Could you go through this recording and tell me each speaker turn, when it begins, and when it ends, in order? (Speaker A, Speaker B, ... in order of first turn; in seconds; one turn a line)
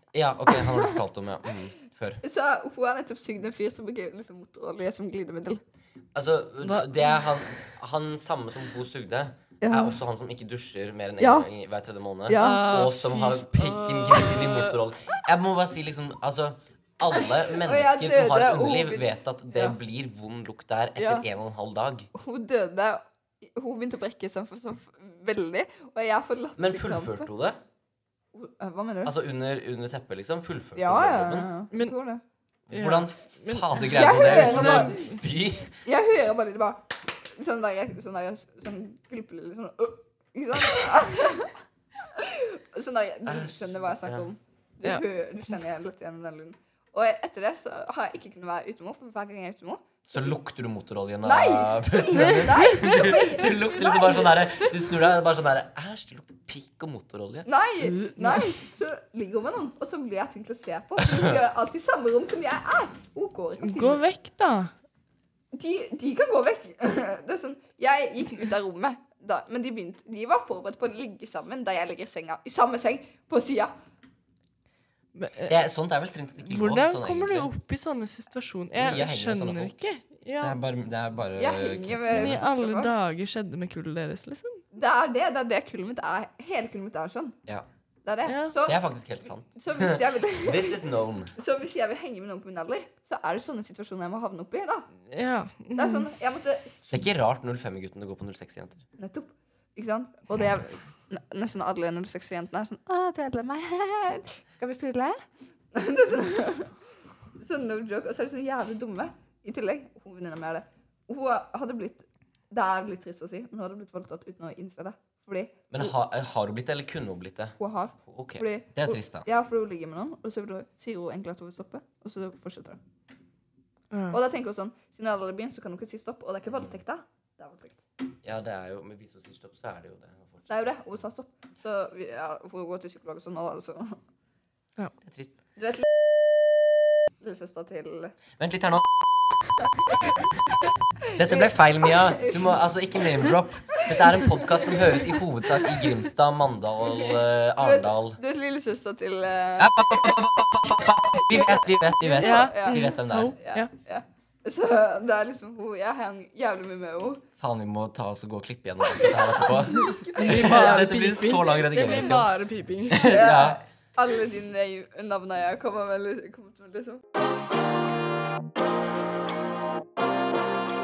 Speaker A: 0.1-2.2
Speaker B: 0.5-0.9
Speaker B: 2.2-5.6
Speaker A: 6.1-22.1
Speaker C: 6.6-6.9
Speaker B: 9.6-10.0
Speaker B: 11.2-11.5
Speaker B: 12.3-12.9
Speaker C: 12.4-14.8
Speaker B: 17.2-19.8
Speaker B: 21.0-21.2
Speaker B: 22.1-27.3
Speaker A: 26.6-27.6
Speaker B: 28.3-29.1
Speaker A: 29.0-31.5
Speaker B: 30.8-32.2
Speaker C: 31.7-32.0
Speaker A: 32.7-35.7
Speaker C: 32.7-35.2
Speaker B: 33.9-35.1
Speaker B: 35.8-41.5
Speaker B: 42.1-50.3
Speaker A: 43.3-44.2
Speaker A: 50.1-57.5
Speaker B: 51.2-54.3
Speaker C: 52.4-53.1
Speaker B: 57.5-64.0
Speaker C: 57.8-58.5
Speaker C: 63.6-64.7
Speaker B: 65.5-73.7
Speaker C: 75.1-75.5
Speaker A: 75.5-77.5
Speaker C: 76.5-80.6
Speaker A: 78.8-79.7
Speaker A: 80.4-82.4
Speaker B: 81.4-82.9
Speaker C: 82.0-84.6
Speaker B: 84.7-87.3
Speaker B: 88.0-88.8
Speaker C: 88.2-88.5
Speaker A: 88.6-91.3
Speaker B: 89.5-94.9
Speaker C: 95.1-96.1
Speaker B: 95.8-96.9
Speaker A: 96.9-98.8
Speaker B: 99.0-106.7
Speaker B: 107.3-115.9
Speaker A: 115.7-119.2
Speaker B: 117.6-122.8
Speaker C: 123.9-124.2
Speaker B: 124.1-127.8
Speaker A: 128.2-130.6
Speaker B: 130.5-134.0
Speaker A: 135.1-135.3
Speaker B: 135.6-135.9
Speaker B: 137.2-138.1
Speaker A: 138.4-139.4
Speaker B: 141.1-145.1
Speaker A: 141.2-148.2
Speaker B: 147.6-150.2
Speaker A: 149.6-153.3
Speaker B: 151.1-157.2
Speaker C: 152.2-153.7
Speaker A: 157.4-162.3
Speaker B: 158.9-160.8
Speaker C: 159.9-163.3
Speaker A: 162.9-163.6
Speaker B: 163.0-167.0